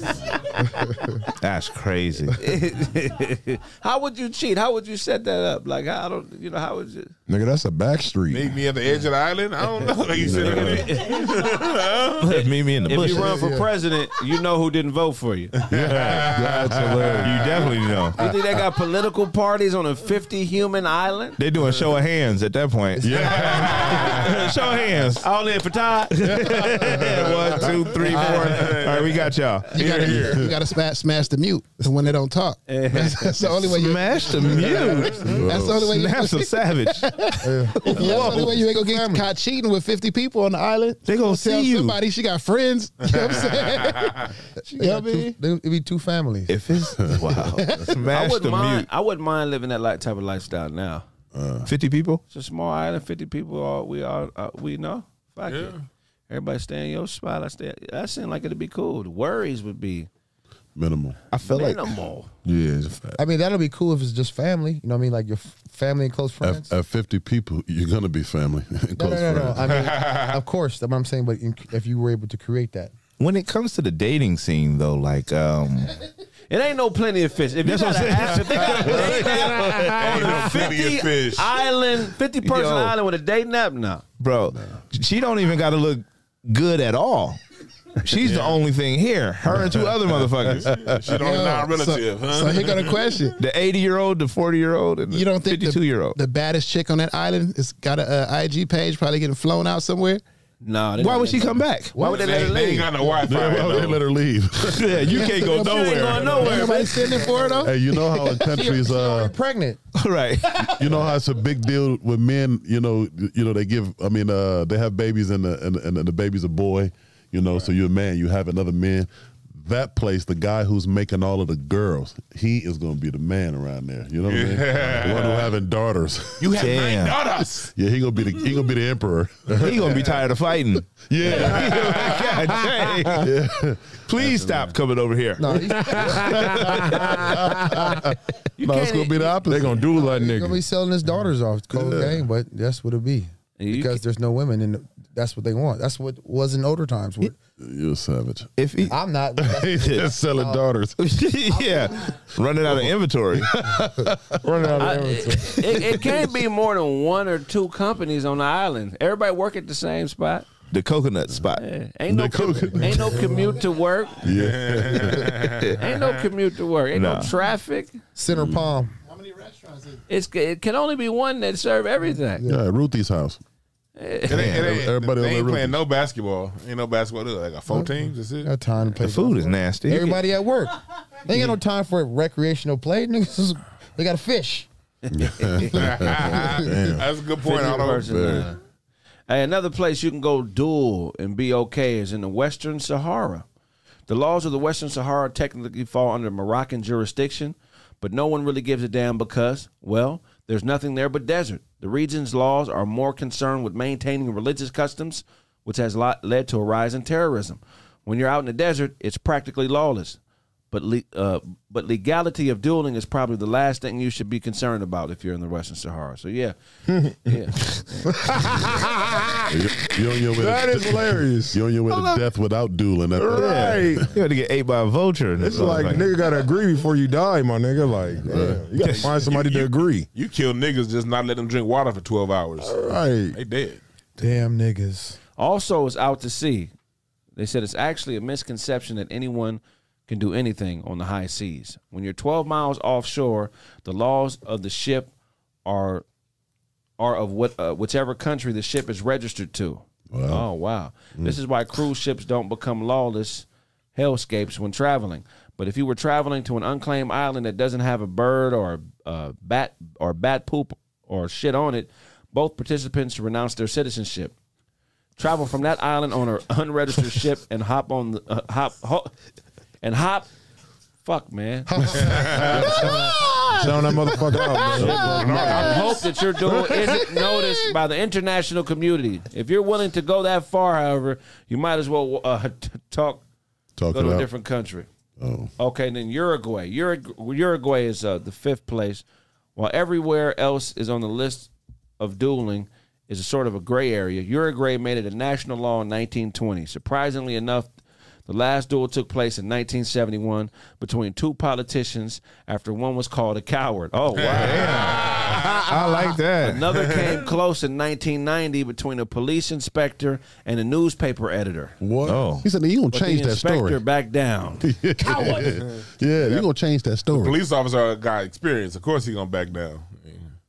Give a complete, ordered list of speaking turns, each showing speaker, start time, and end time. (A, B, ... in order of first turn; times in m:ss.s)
0:01.4-0:02.4 A
0:02.4-0:07.1 B
0:07.3-0:08.6 C
0:08.3-0:12.2 D
0:10.2-0:10.8 E
0:10.2-0:15.5 B
0:12.2-0:13.4 A
0:13.0-0:13.7 F
0:15.6-0:16.9 D
0:15.7-0:17.6 E
0:15.9-0:16.3 A
0:16.4-0:17.4 C
0:17.2-0:18.2 A
0:18.2-0:18.5 E
0:18.2-0:21.4 B
0:21.4-0:23.2 A
0:23.0-0:23.8 F
0:23.0-0:23.9 E
0:23.1-0:24.5 D
0:24.0-0:25.3 A
0:25.2-0:26.4 B
0:26.1-0:30.1 A
0:27.1-0:30.5 D
0:29.8-0:44.2 G
0:30.2-0:30.6 E
0:32.7-0:33.7 B
0:33.7-0:38.5 A
0:34.6-0:35.2 D
0:35.2-0:35.9 E
0:37.4-0:39.3 F
0:41.0-0:42.0 A
0:43.2-0:44.3 D
0:44.7-0:47.5 F
0:44.8-0:45.3 G
0:46.5-0:48.9 A
0:47.5-0:47.9 G
0:48.1-0:51.0 B
0:51.3-0:51.7 E
0:51.7-0:52.2 A
0:52.3-0:55.8 B
0:55.5-0:55.8 D
0:56.3-1:00.1 B
1:00.8-1:01.2 E
1:01.3-1:01.9 A
1:01.4-1:02.3 B
1:02.5-1:03.0 C
1:02.9-1:03.2 E
1:03.2-1:06.7 F
1:06.4-1:09.9 E
1:09.0-1:12.9 F
1:09.6-1:10.4 D
1:13.2-1:16.0 A
1:16.5-1:24.0 B
1:17.6-1:20.7 A
1:19.9-1:21.6 D
1:22.4-1:23.0 A
1:24.2-1:27.4 A
1:28.0-1:30.7 A
1:28.2-1:28.6 D
1:29.5-1:29.9 E
1:30.4-1:33.0 D
1:31.1-1:33.4 G
1:33.4-1:36.2 A
1:35.1-1:40.2 G
1:40.6-1:43.3 B
1:41.0-1:42.0 A
1:42.0-1:42.7 F
1:42.0-1:44.1 D
1:43.2-1:45.4 E
1:44.6-1:46.7 A
1:45.2-1:49.8 F
1:45.5-1:47.1 B
1:46.0-1:47.1 D
1:47.1-1:47.7 G
1:47.6-1:49.4 E
1:50.0-1:50.8 A
1:50.7-2:06.6 E
2:04.3-2:05.5 D
2:06.4-2:07.7 D
2:06.6-2:07.2 A
2:07.8-2:09.9 E
2:09.6-2:13.3 A
2:11.0-2:12.2 E
2:13.2-2:14.0 E
2:14.1-2:17.0 A
2:15.4-2:16.6 F
2:16.0-2:18.1 E
2:18.6-2:19.4 B
2:18.6-2:19.9 E
2:19.5-2:20.6 C
2:20.0-2:27.4 F
2:21.7-2:22.2 E
2:23.6-2:24.0 B
2:27.6-2:31.0 E
2:28.6-2:29.0 A
2:28.9-2:30.7 F
2:31.0-2:33.5 A
2:31.6-2:32.2 F
2:32.6-2:34.8 E
2:34.4-2:36.0 C
2:34.7-2:35.4 F
2:34.8-2:40.5 B
2:40.7-2:41.6 A
2:41.6-2:44.3 B
2:42.1-2:43.5 E
2:43.0-2:43.5 F
2:44.2-2:45.4 E
2:44.4-2:46.2 D
2:45.8-2:47.9 B
2:46.9-2:47.3 A
2:48.2-2:48.9 F
2:48.3-2:48.7 E
2:50.1-2:52.4 B
2:52.4-2:53.4 E
2:54.0-2:54.6 B
2:54.3-2:58.5 D
2:54.3-2:54.6 A
2:54.4-2:55.8 E
2:58.4-3:04.7 F
2:59.0-3:00.2 A
3:05.1-3:06.6 E
3:05.4-3:05.8 B
3:05.8-3:08.1 D
3:05.9-3:06.6 F
3:06.7-3:07.0 C
3:07.4-3:08.6 B
3:08.0-3:08.5 E
3:09.3-3:13.4 B
3:14.1-3:30.2 B
3:30.7-3:36.6 B
3:36.9-3:37.3 C
3:37.2-3:37.5 B
3:38.1-3:39.5 C
3:39.5-3:44.1 E
3:40.3-3:41.6 C
3:43.2-3:44.1 C
3:43.3-3:46.1 A
3:45.4-3:46.0 E
3:45.4-3:50.1 C
3:48.2-3:48.6 E
3:48.8-3:52.8 D
3:52.6-3:53.3 F
3:53.3-3:53.8 D
3:54.2-3:55.2 F
3:55.4-3:56.7 B
3:57.4-4:05.1 B
4:05.6-4:06.0 B
4:07.0-4:24.3 B
4:10.1-4:10.5 E
4:25.2-4:29.1 B
4:29.8-4:30.3 B
4:31.0-4:31.9 B
4:31.8-4:33.9 F
4:32.0-4:32.7 D
4:32.6-4:33.0 E
4:33.5-4:35.8 C
4:34.7-4:35.6 E
4:34.7-4:43.2 B
4:34.8-4:36.1 D
4:36.7-4:37.0 C
4:43.8-4:44.3 E
4:43.9-4:44.9 B
4:45.2-4:45.5 E
4:45.6-4:49.0 B
4:49.6-4:57.7 B
4:58.3-5:05.4 B
5:04.2-5:05.6 D
5:04.3-5:06.6 A
5:06.4-5:11.8 B
5:06.7-5:07.3 D
5:11.8-5:13.8 E
5:12.1-5:12.4 A
5:12.9-5:14.7 B
5:14.6-5:17.4 E
5:15.2-5:15.6 D
5:16.2-5:16.5 D
5:17.1-5:20.3 D